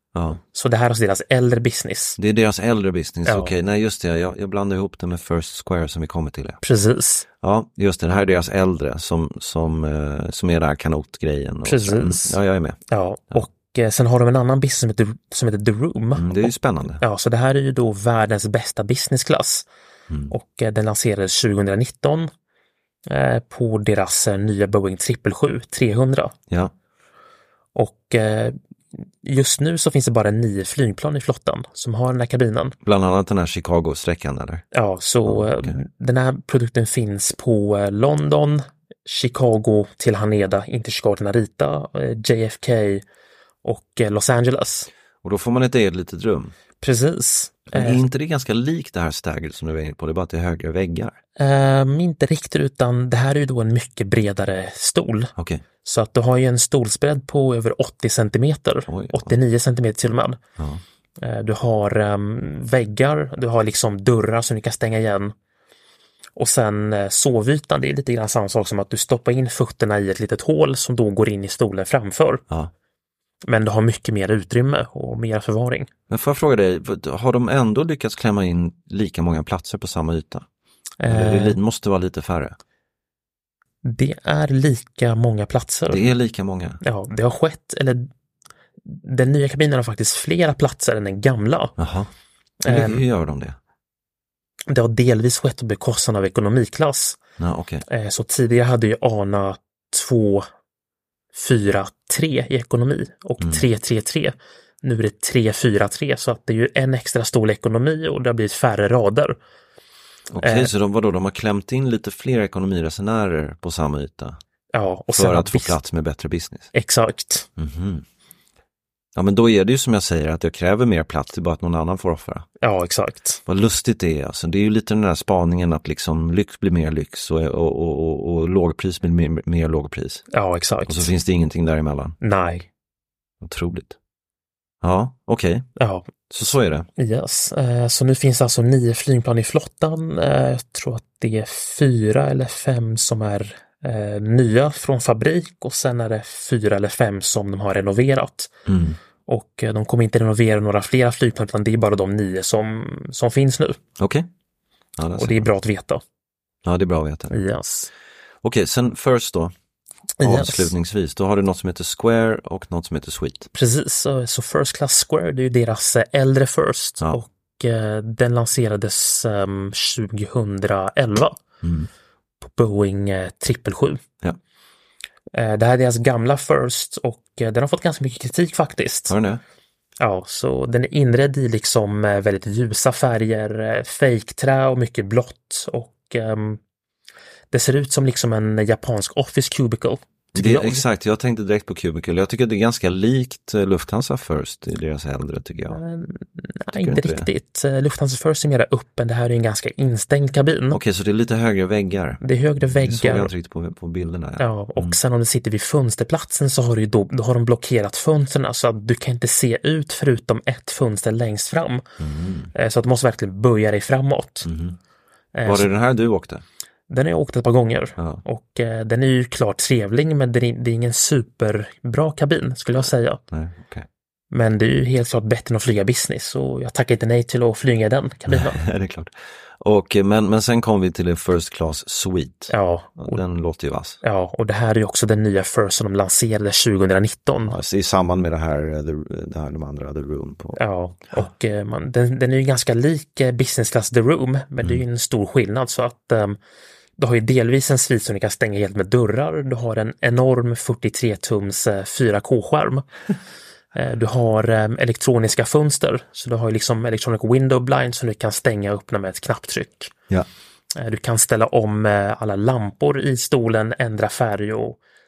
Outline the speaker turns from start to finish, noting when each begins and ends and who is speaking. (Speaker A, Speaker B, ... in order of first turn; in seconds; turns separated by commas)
Speaker A: 0.1-0.4, Speaker B: 0.4-2.2, Speaker A: 2.2-6.6, Speaker B: 3.3-3.5, Speaker B: 6.6-7.3, Speaker A: 7.4-12.8, Speaker B: 11.6-12.4, Speaker B: 12.9-19.7, Speaker A: 16.2-17.0, Speaker A: 20.1-20.3, Speaker B: 20.3-22.3, Speaker B: 23.1-26.4, Speaker B: 27.8-32.8, Speaker A: 32.8-34.6, Speaker B: 34.7-43.0, Speaker A: 35.2-35.8, Speaker B: 43.6-44.9, Speaker A: 45.2-46.5, Speaker B: 46.8-48.0, Speaker A: 47.7-51.2, Speaker B: 51.4-60.4, Speaker A: 55.4-55.6, Speaker A: 58.9-59.4, Speaker A: 60.6-60.8, Speaker B: 61.2-65.3, Speaker B: 66.4-72.4, Speaker B: 73.5-75.9, Speaker A: 76.1-80.5, Speaker B: 81.0-81.6, Speaker A: 81.1-82.6, Speaker B: 83.8-86.1, Speaker A: 85.9-86.8, Speaker B: 86.8-88.1, Speaker B: 88.8-91.8, Speaker A: 91.8-92.1, Speaker B: 92.6-93.0, Speaker A: 92.7-93.6, Speaker B: 94.7-97.2, Speaker A: 97.4-97.8, Speaker B: 97.9-100.5, Speaker B: 101.3-109.4, Speaker A: 103.4-103.7, Speaker A: 110.3-114.4, Speaker B: 110.4-110.7, Speaker B: 114.7-115.8, Speaker A: 115.1-116.7, Speaker B: 116.7-117.5, Speaker A: 117.6-118.0, Speaker A: 119.2-122.5, Speaker B: 122.6-123.4, Speaker A: 123.5-130.2, Speaker B: 130.3-131.1, Speaker A: 130.9-132.2, Speaker B: 132.2-132.7, Speaker A: 133.4-134.0, Speaker A: 134.8-135.7, Speaker B: 135.8-136.1, Speaker A: 136.3-136.9, Speaker B: 137.0-148.5, Speaker A: 148.7-149.0, Speaker B: 149.3-153.8, Speaker A: 154.0-154.3, Speaker A: 155.0-155.5, Speaker B: 155.2-156.0, Speaker A: 156.6-157.4, Speaker B: 157.3-157.9, Speaker A: 158.4-159.5, Speaker B: 160.2-160.7, Speaker A: 160.2-163.5, Speaker B: 163.5-171.4, Speaker A: 171.6-171.9, Speaker B: 172.4-174.0, Speaker B: 175.3-179.1, Speaker A: 179.1-179.4, Speaker B: 180.0-186.6, Speaker B: 187.5-190.8, Speaker A: 190.3-195.8, Speaker B: 195.7-200.8, Speaker A: 196.7-197.3, Speaker A: 200.7-205.0, Speaker B: 202.2-203.3, Speaker B: 204.4-211.8, Speaker A: 212.0-212.5, Speaker B: 212.6-214.5, Speaker A: 214.4-214.8, Speaker B: 215.3-215.7, Speaker A: 215.4-216.4, Speaker B: 216.9-223.2, Speaker A: 223.3-223.9, Speaker B: 224.3-228.6, Speaker A: 228.3-234.0, Speaker B: 232.5-233.2, Speaker B: 234.0-237.6, Speaker A: 237.5-240.6, Speaker B: 240.6-246.4, Speaker B: 247.0-252.8, Speaker B: 253.8-259.9, Speaker B: 260.8-264.8